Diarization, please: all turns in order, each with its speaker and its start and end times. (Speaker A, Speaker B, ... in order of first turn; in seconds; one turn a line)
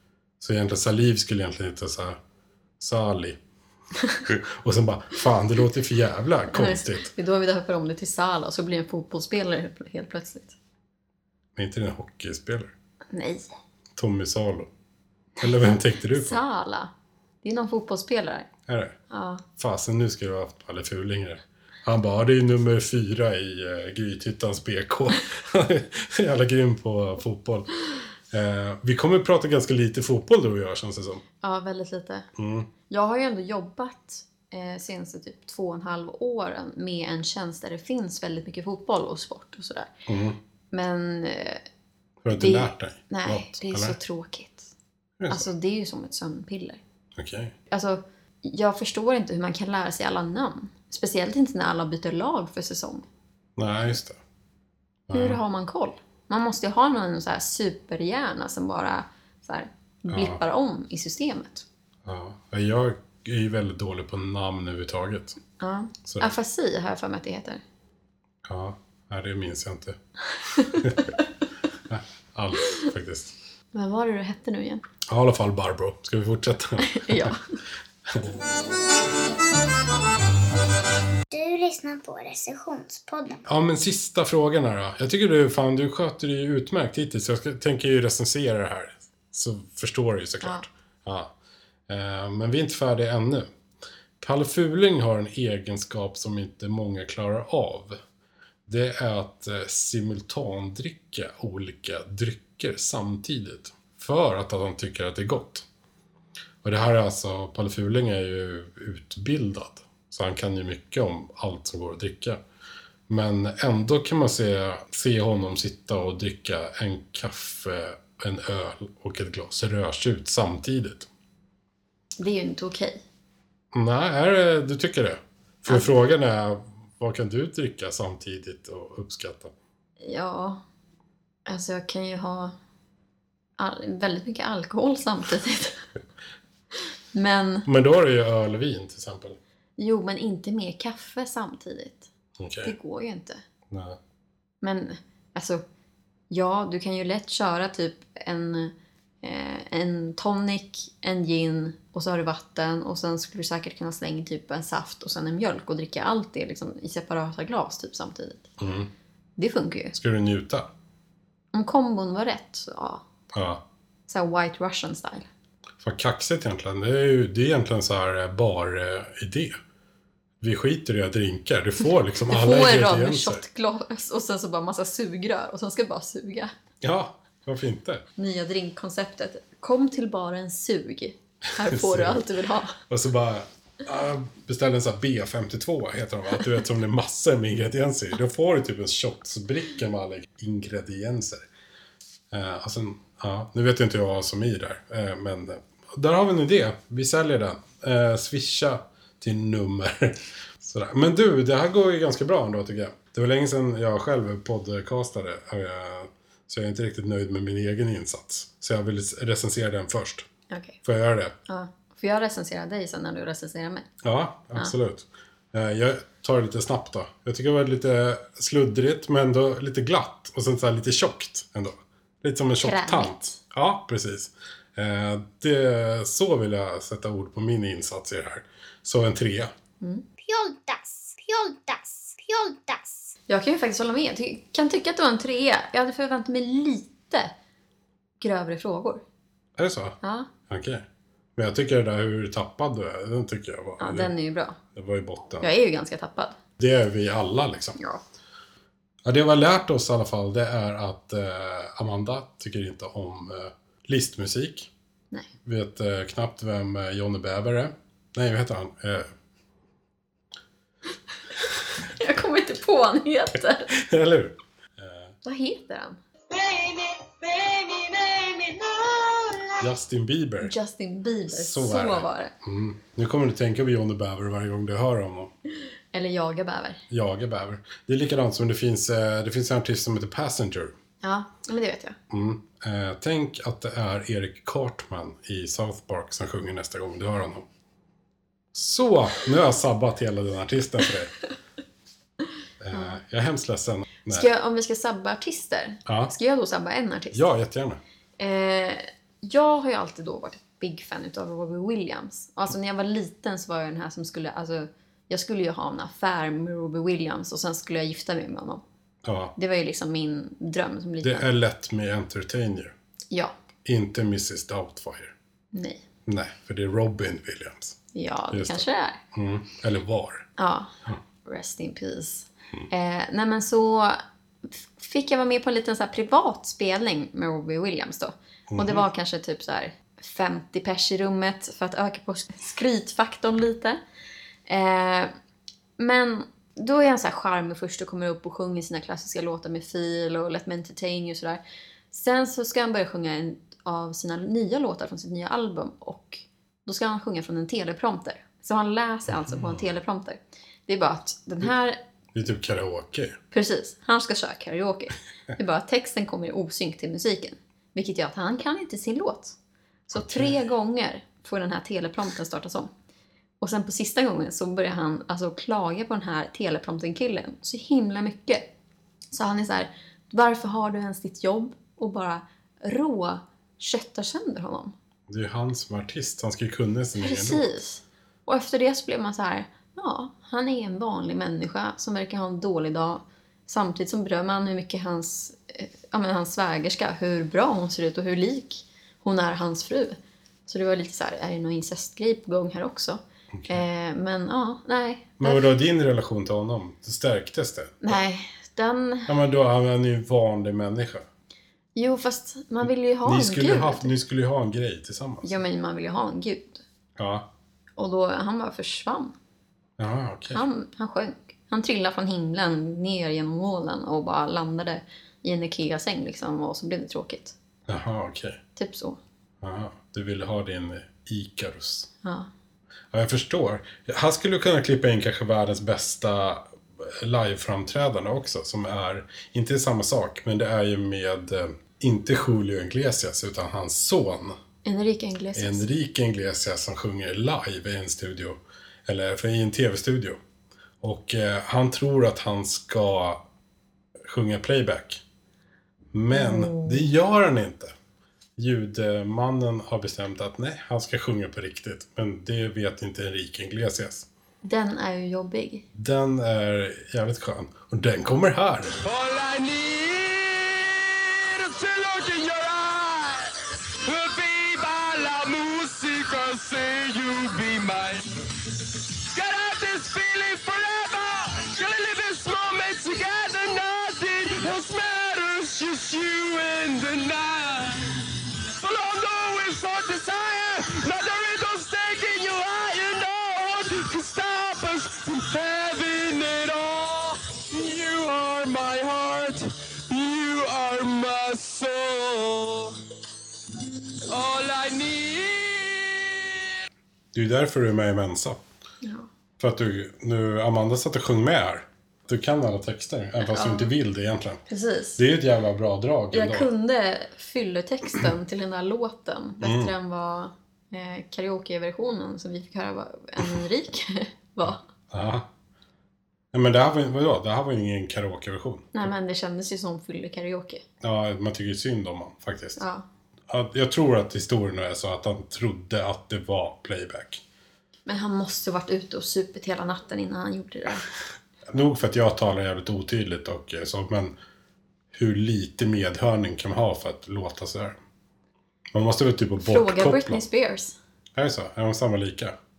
Speaker A: 0.4-2.2
Speaker A: 2.8-3.4
Speaker A: 4.3-7.1
Speaker B: 6.5-10.6
Speaker A: 11.6-12.7
Speaker B: 13.1-13.5
Speaker A: 14.0-14.7
Speaker A: 15.4-16.4
Speaker B: 15.4-16.9
Speaker B: 17.4-18.5
Speaker A: 18.7-19.0
Speaker B: 19.1-19.4
Speaker A: 19.6-27.7
Speaker A: 28.3-31.2
Speaker B: 31.4-32.3
Speaker A: 32.4-32.7
Speaker B: 32.9-39.9
Speaker A: 40.1-40.4
Speaker B: 40.7-41.6
Speaker A: 42.2-44.0
Speaker B: 42.3-44.7
Speaker A: 45.2-45.5
Speaker B: 45.3-46.8
Speaker A: 47.2-47.5
Speaker B: 47.7-53.0
Speaker A: 53.6-54.2
Speaker A: 55.1-55.4
Speaker B: 55.1-61.6
Speaker A: 60.1-60.4
Speaker A: 62.0-65.4
Speaker B: 65.6-67.6
Speaker A: 66.0-66.3
Speaker A: 68.5-70.0
Speaker B: 70.5-70.8
Speaker A: 70.7-71.1
Speaker A: 71.9-73.3
Speaker B: 73.7-74.8
Speaker A: 75.1-77.3
Speaker B: 76.8-77.5
Speaker C: 81.3-83.4
Speaker A: 83.5-91.3
Speaker A: 91.9-93.5
Speaker A: 94.2-98.0
Speaker A: 98.7-105.7
Speaker A: 106.6-112.4
Speaker A: 113.1-121.1
Speaker B: 122.2-123.0
Speaker A: 123.7-129.5
Speaker B: 130.0-130.6
Speaker B: 131.5-132.5
Speaker B: 133.6-135.8
Speaker B: 137.1-137.7
Speaker A: 137.7-139.4
Speaker B: 139.8-142.1
Speaker A: 142.4-142.8
Speaker B: 142.6-143.4
Speaker A: 143.7-144.0
Speaker B: 144.6-145.6
Speaker B: 146.3-158.5
Speaker A: 158.6-158.9
Speaker B: 159.4-160.0
Speaker A: 160.0-160.7
Speaker B: 161.5-163.0
Speaker A: 163.3-163.6
Speaker B: 164.1-165.3
Speaker A: 165.8-169.6
Speaker A: 170.4-173.4
Speaker B: 172.3-176.5
Speaker A: 176.8-178.0
Speaker B: 178.2-182.8
Speaker A: 181.6-182.2
Speaker A: 182.9-191.4
Speaker A: 192.3-210.3
Speaker B: 210.5-210.8
Speaker A: 210.8-211.3
Speaker B: 211.5-213.9
Speaker A: 214.0-229.5
Speaker B: 222.6-223.4
Speaker C: 230.2-233.1
Speaker B: 233.3-237.3
Speaker B: 238.2-239.0
Speaker A: 239.6-240.8
Speaker B: 240.0-240.3
Speaker A: 241.4-244.1
Speaker B: 243.8-244.6
Speaker A: 244.7-245.5
Speaker B: 245.4-246.4
Speaker A: 246.6-247.8
Speaker A: 249.1-254.7
Speaker A: 255.4-259.1
Speaker B: 261.9-263.7
Speaker A: 263.7-265.1
Speaker B: 265.2-266.0
Speaker D: 266.3-269.7
Speaker A: 269.6-270.6
Speaker B: 270.4-272.3
Speaker A: 271.3-275.3
Speaker B: 275.9-276.8
Speaker A: 276.9-280.8
Speaker B: 281.0-282.0
Speaker A: 282.1-287.5
Speaker A: 288.5-291.1
Speaker A: 292.6-294.3
Speaker B: 292.7-293.0
Speaker B: 294.1-297.2
Speaker A: 295.9-296.1
Speaker A: 297.1-297.8
Speaker B: 298.2-308.6
Speaker A: 309.0-309.3
Speaker B: 309.4-311.2
Speaker A: 311.0-312.7
Speaker A: 313.6-315.1
Speaker B: 315.5-315.8
Speaker A: 316.1-317.8
Speaker B: 317.9-319.0
Speaker A: 318.3-320.3
Speaker B: 320.4-320.7
Speaker B: 321.2-333.8
Speaker A: 328.5-328.8
Speaker B: 334.5-335.1
Speaker B: 335.8-351.8
Speaker A: 349.1-349.6
Speaker A: 352.1-353.2
Speaker B: 353.3-359.4
Speaker B: 359.9-362.7
Speaker A: 359.9-360.4
Speaker B: 363.4-368.5
Speaker B: 369.1-374.7
Speaker A: 375.1-377.5
Speaker B: 377.0-395.5
Speaker A: 393.3-393.6
Speaker A: 395.2-398.0
Speaker B: 397.8-399.1
Speaker A: 399.1-401.1
Speaker B: 401.8-403.9
Speaker A: 403.1-405.4
Speaker B: 405.2-406.6
Speaker A: 407.0-407.3
Speaker B: 407.8-409.1
Speaker A: 409.8-410.4
Speaker B: 410.3-417.4
Speaker A: 417.7-418.4
Speaker B: 418.6-419.0
Speaker A: 419.4-421.9
Speaker B: 422.0-422.3
Speaker A: 422.9-434.4
Speaker B: 434.6-435.7
Speaker A: 435.4-440.2
Speaker A: 440.8-443.2
Speaker A: 444.0-445.0
Speaker A: 445.9-447.7
Speaker B: 446.1-446.9
Speaker A: 448.4-454.1
Speaker B: 454.4-455.6
Speaker A: 455.8-458.7
Speaker E: 458.8-468.1
Speaker E: 469.1-492.8
Speaker E: 494.1-496.5
Speaker A: 497.1-498.4
Speaker B: 498.8-499.1
Speaker A: 499.4-504.4
Speaker B: 503.2-503.7
Speaker B: 504.5-505.0
Speaker A: 505.0-506.5
Speaker B: 506.1-514.6
Speaker A: 509.4-509.7
Speaker A: 514.9-515.3
Speaker A: 516.3-518.9
Speaker B: 518.7-520.6
Speaker A: 520.8-522.6
Speaker B: 522.6-522.9
Speaker A: 523.3-527.2
Speaker B: 527.9-530.9
Speaker A: 531.5-534.1
Speaker A: 534.9-537.8
Speaker A: 538.7-540.2
Speaker B: 539.4-540.8
Speaker A: 541.1-542.4